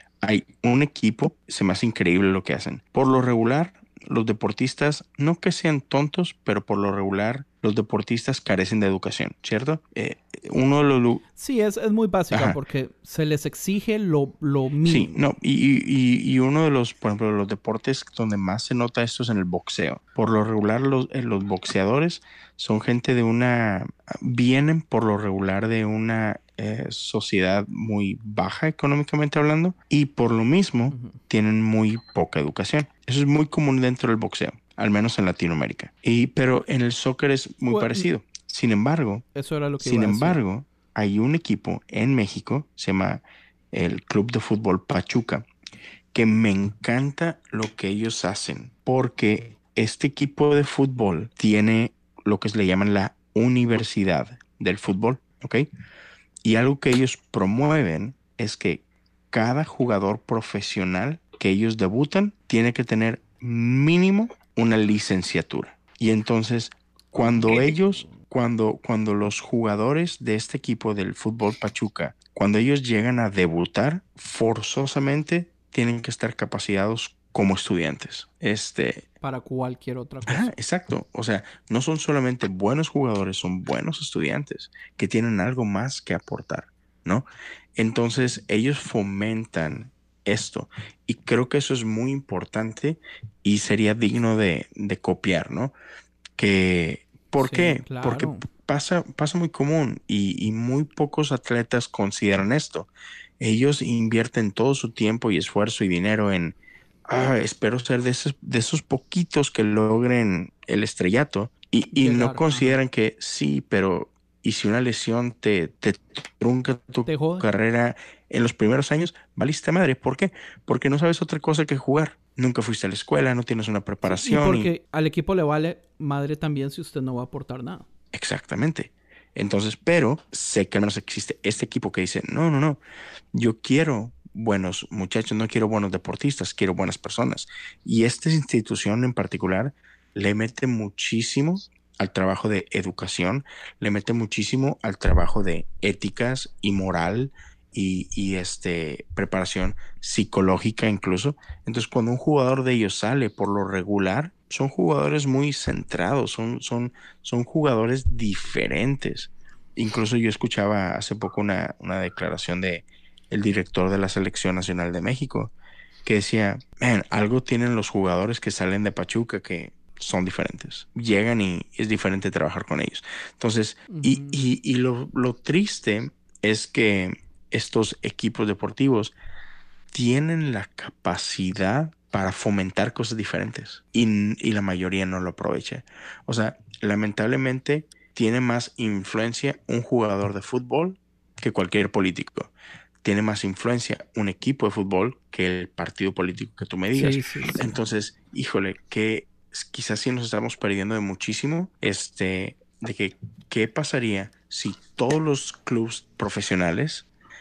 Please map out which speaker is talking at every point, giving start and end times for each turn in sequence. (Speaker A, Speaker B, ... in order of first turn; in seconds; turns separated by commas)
Speaker A: 0.2-11.2, Speaker B: 11.4-15.2, Speaker A: 12.3-12.6, Speaker A: 14.9-39.2, Speaker B: 30.9-31.2, Speaker B: 37.7-38.0, Speaker B: 39.4-40.4, Speaker A: 39.8-45.5, Speaker A: 46.1-55.7, Speaker A: 56.4-79.1, Speaker B: 67.2-68.2, Speaker B: 79.2-80.5, Speaker A: 80.3-95.7, Speaker A: 96.4-124.7, Speaker B: 97.4-98.4, Speaker B: 111.9-112.8, Speaker B: 117.0-117.5, Speaker B: 124.0-127.8, Speaker A: 128.1-132.8, Speaker A: 133.3-165.5, Speaker A: 166.0-179.1, Speaker B: 173.9-174.5, Speaker A: 179.9-192.5, Speaker A: 193.0-207.1, Speaker B: 196.9-197.7